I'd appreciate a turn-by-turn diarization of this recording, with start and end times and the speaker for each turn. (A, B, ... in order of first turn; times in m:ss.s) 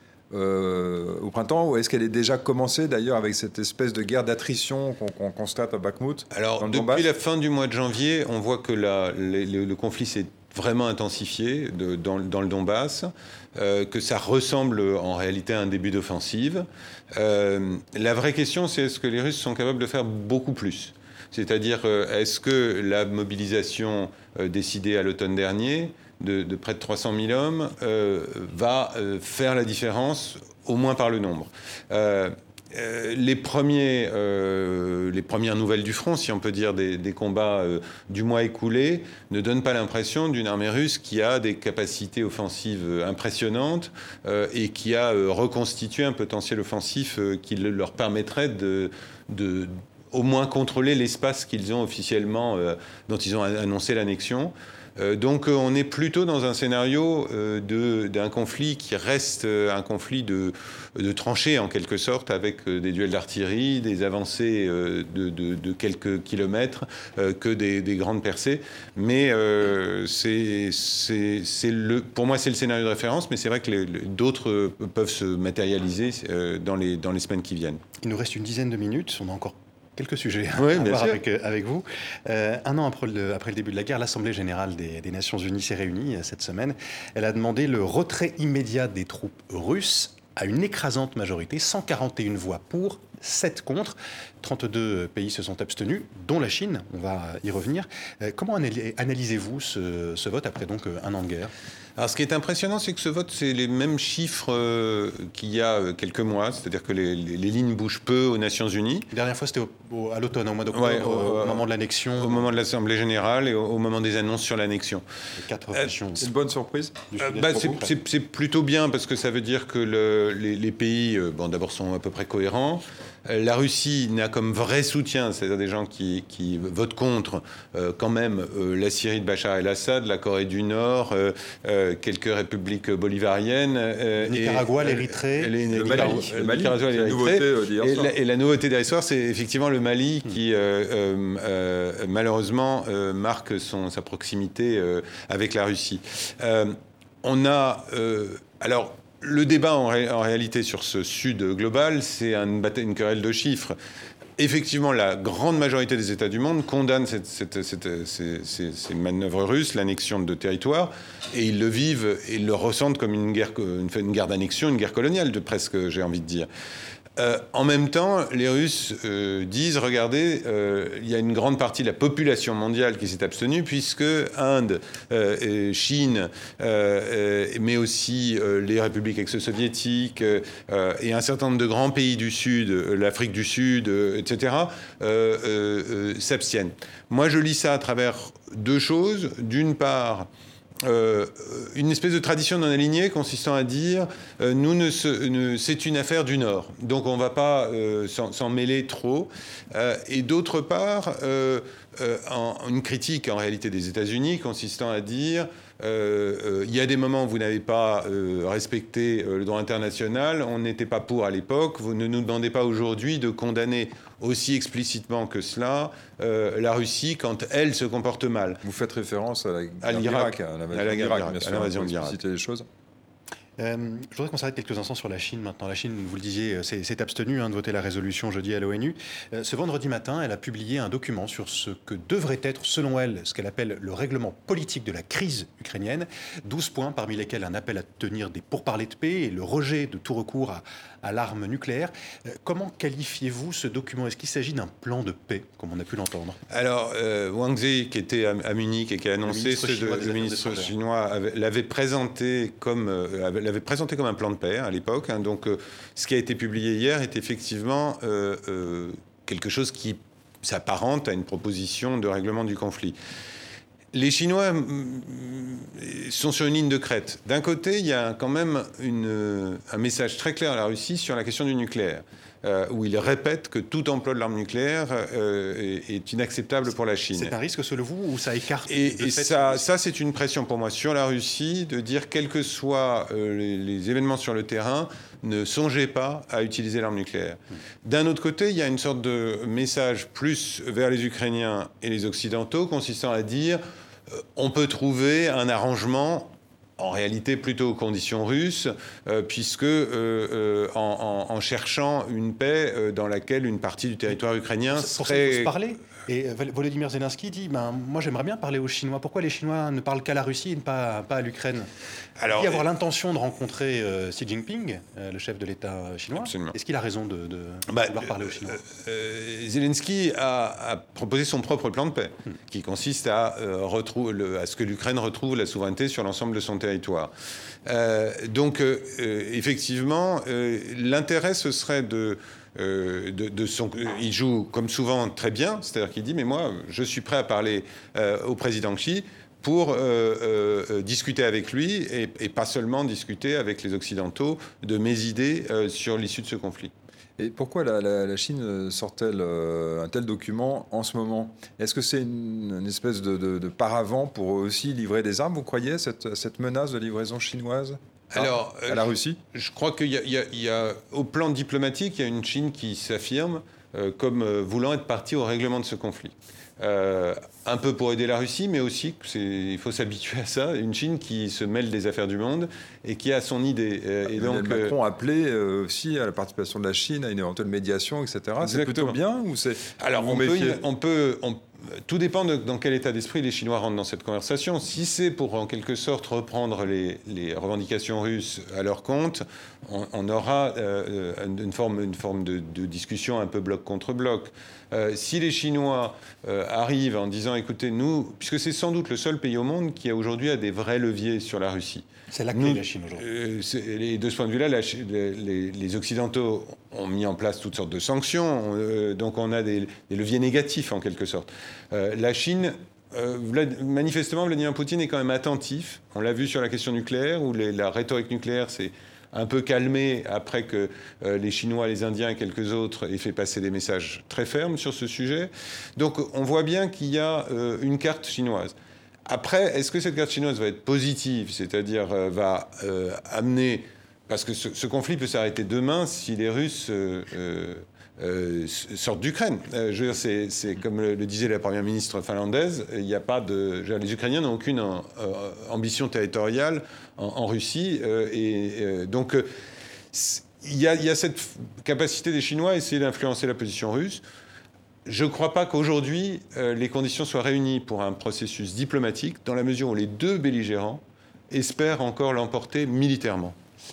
0:00.3-0:07.1 A
0:06.3-1:17.8 B
1:18.0-1:41.5 C
1:20.6-1:21.2 B
1:42.0-1:49.1 B
1:49.1-1:52.5 C
1:50.7-1:55.0 B
1:55.4-1:56.2 C
1:56.2-1:57.0 A
1:57.1-1:57.9 C
1:57.2-2:33.8 B
2:14.2-2:16.2 C
2:15.7-2:18.1 A
2:34.4-2:46.5 B
2:47.2-3:10.3 B
3:10.8-3:38.6 B
3:38.6-3:42.6 A
3:39.8-3:42.2 B
3:43.6-4:06.4 C
4:06.5-4:23.0 B
4:09.2-4:10.7 C
4:23.9-4:37.3 B
4:37.1-4:39.7 C
4:38.7-5:05.5 B
5:04.7-5:11.7 C
5:12.2-5:12.6 B
5:12.3-5:18.6 C
5:16.2-5:16.5 B
5:17.7-5:27.1 B
5:27.6-5:46.7 B
5:47.2-5:59.2 A
5:58.1-6:14.7 B
6:14.0-6:20.6 A
6:18.4-6:19.0 B
6:19.8-7:08.5 B
6:42.1-6:43.0 C
7:09.0-7:29.3 B
7:29.9-7:34.0 B
7:34.8-7:43.4 B